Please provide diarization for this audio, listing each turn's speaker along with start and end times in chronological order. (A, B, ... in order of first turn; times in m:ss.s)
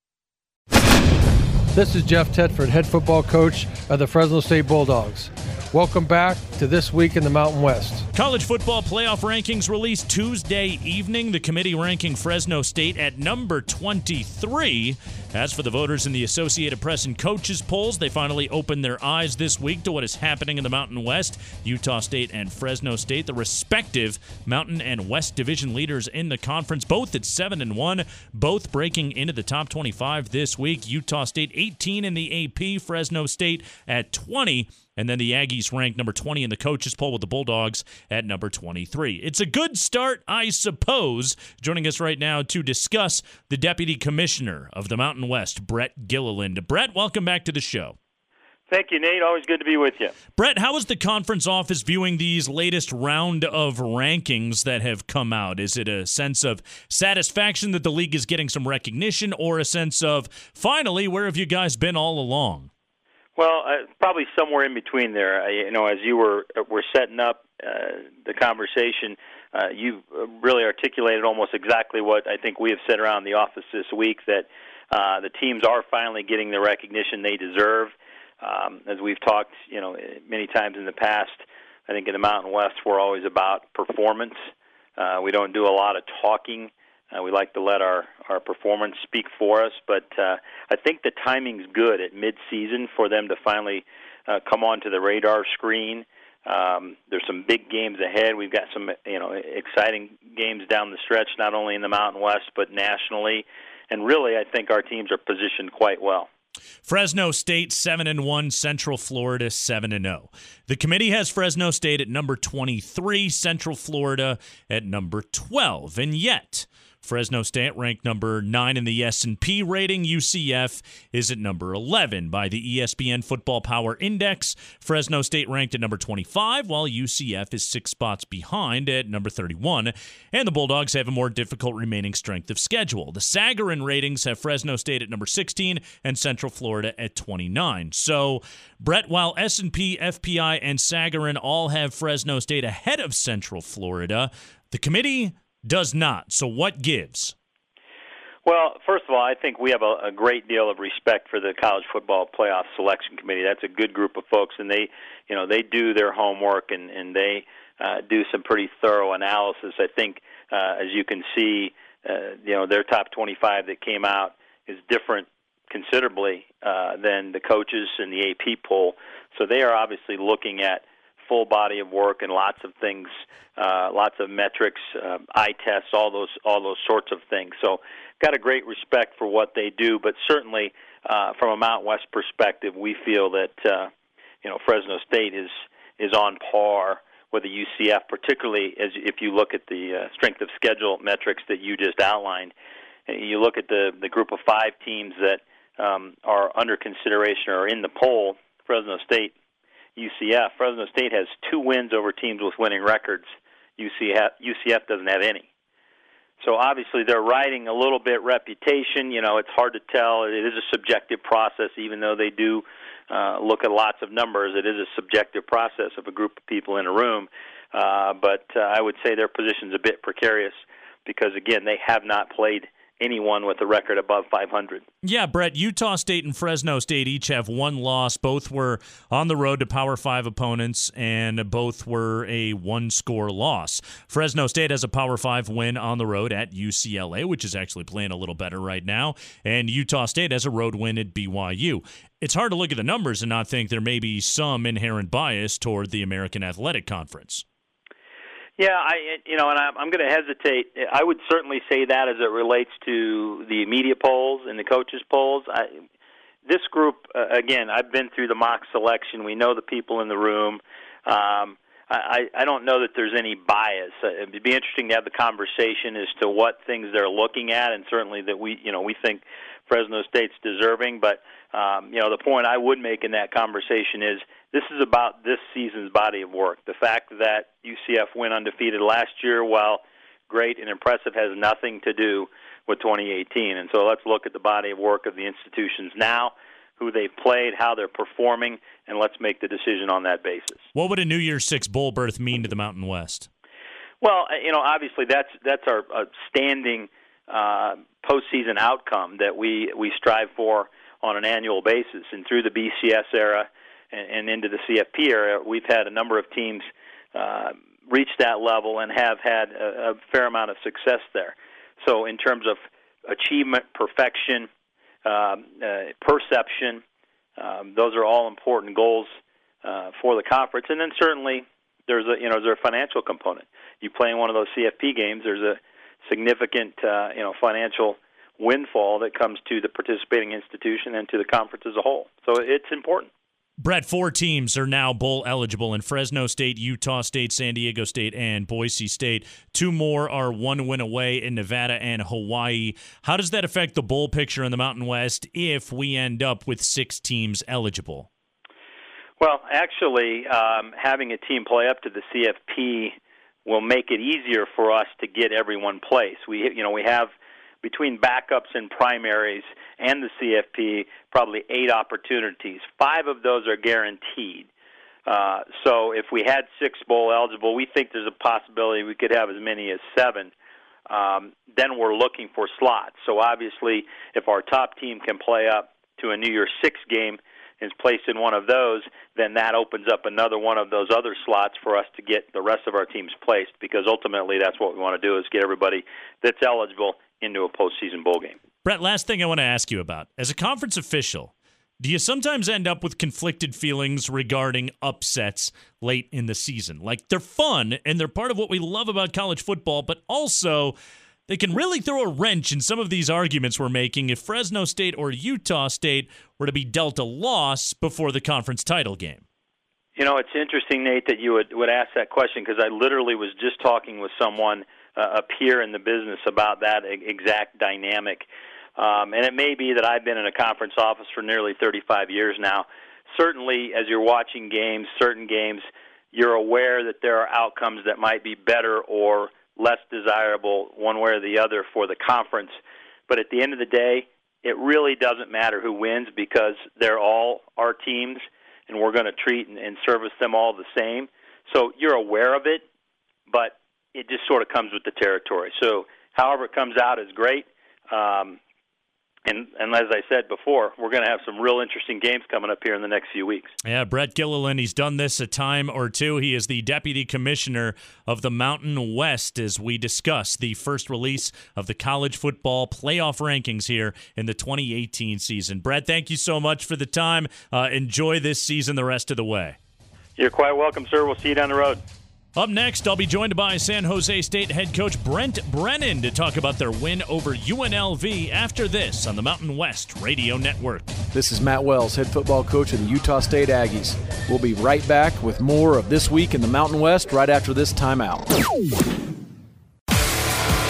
0:01.7-0:08.0 A
0:08.1-0:48.0 B
0:48.7-0:50.1 C
0:50.4-1:02.7 B
1:03.4-1:24.4 C
1:25.0-1:46.3 C
1:46.8-2:27.3 B
2:28.4-3:03.9 C
3:04.4-3:12.5 C
3:13.1-3:19.3 C
3:20.0-3:23.3 C
3:23.8-3:25.5 C
3:26.4-3:44.8 C
3:45.0-4:07.4 B
4:08.6-4:15.7 C
4:16.4-4:50.6 C
4:50.7-4:53.3 B
4:54.0-5:14.5 C
5:15.0-5:16.8 C
5:17.4-5:33.1 C
5:33.6-5:48.1 B
5:49.2-5:57.1 C
5:57.6-6:04.5 C
6:05.1-6:10.3 C
6:10.9-6:28.4 C
6:28.6-6:40.8 B
6:41.3-6:49.2 B
6:50.0-7:12.6 C
7:13.1-7:22.6 C
7:23.3-7:28.4 C
7:29.2-7:33.5 C
7:33.6-7:49.6 B
7:50.2-7:51.8 C
7:52.4-8:00.9 B
8:01.1-8:08.3 D